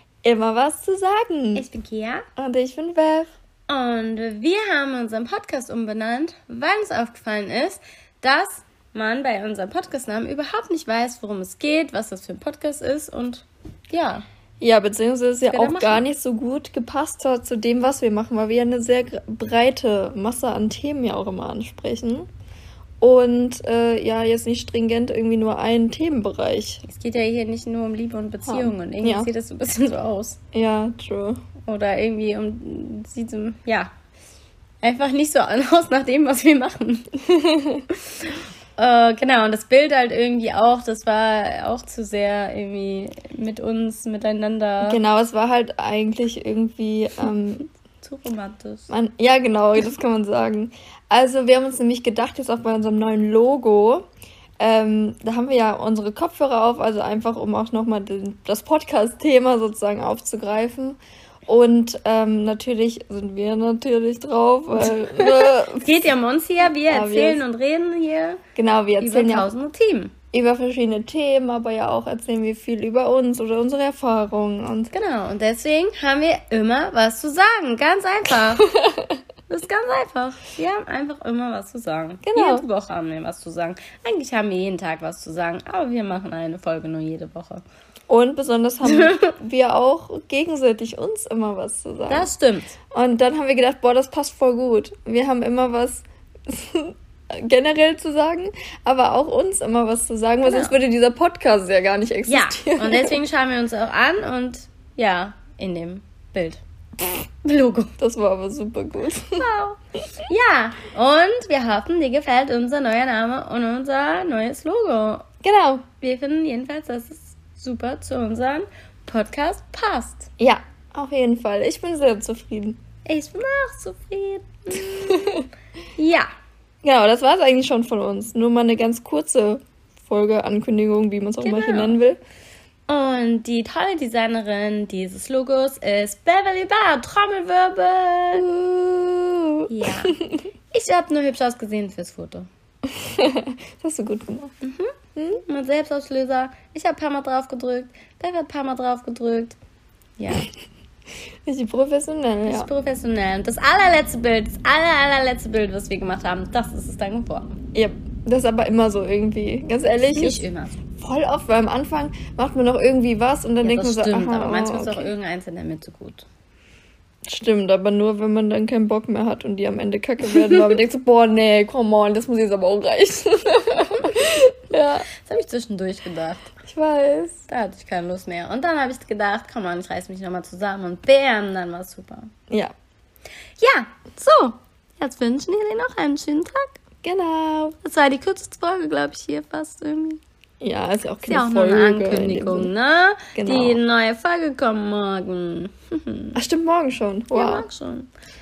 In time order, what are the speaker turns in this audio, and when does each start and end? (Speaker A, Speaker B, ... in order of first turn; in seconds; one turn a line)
Speaker A: 0.2-1.6
Speaker B: 1.6-2.3
Speaker A: 2.4-3.3
Speaker B: 3.7-14.2
Speaker A: 14.6-22.3
Speaker B: 15.4-16.1
Speaker A: 23.0-26.8
Speaker B: 26.8-30.4
Speaker A: 28.4-29.3
Speaker A: 30.5-31.4
Speaker B: 31.6-33.9
Speaker B: 34.8-37.1
Speaker A: 37.3-37.8
Speaker B: 38.2-45.0
Speaker A: 44.8-47.7
Speaker B: 48.0-48.9
Speaker A: 48.9-54.0
Speaker A: 54.6-66.0
Speaker B: 65.2-68.4
Speaker A: 66.9-67.4
Speaker A: 68.5-69.5
Speaker B: 69.0-70.1
Speaker A: 70.3-74.9
Speaker B: 74.9-78.7
Speaker A: 78.8-79.0
Speaker B: 79.5-87.6
Speaker A: 82.2-82.7
Speaker A: 88.1-92.3
Speaker B: 88.9-89.3
Speaker B: 92.1-92.8
Speaker A: 92.9-103.2
Speaker B: 100.5-100.8
Speaker B: 102.3-106.6
Speaker B: 107.4-107.9
Speaker A: 108.0-109.4
Speaker B: 109.4-115.2
Speaker A: 115.4-115.8
Speaker B: 116.0-120.3
Speaker A: 120.4-122.8
Speaker B: 123.0-125.4
Speaker A: 125.0-125.5
Speaker B: 126.0-126.3
Speaker A: 126.8-132.2
Speaker B: 131.4-132.0
Speaker B: 132.9-138.5
Speaker A: 138.3-140.4
Speaker B: 139.7-140.2
Speaker B: 140.7-142.5
Speaker A: 142.9-144.5
Speaker B: 144.6-144.9
Speaker A: 145.2-145.4
Speaker B: 145.4-149.6
Speaker B: 150.2-150.5
Speaker A: 151.4-152.7
Speaker B: 152.5-157.6
Speaker A: 157.8-160.4
Speaker B: 160.0-160.8
Speaker A: 161.0-165.1
Speaker B: 163.6-166.3
Speaker A: 167.3-175.1
Speaker B: 175.1-176.5
Speaker A: 176.7-177.5
Speaker B: 177.5-182.3
Speaker B: 183.6-186.8
Speaker A: 187.0-187.8
Speaker B: 187.8-190.2
Speaker A: 190.6-192.7
Speaker B: 191.3-196.4
Speaker A: 193.3-193.8
Speaker A: 196.4-197.7
Speaker B: 197.3-198.1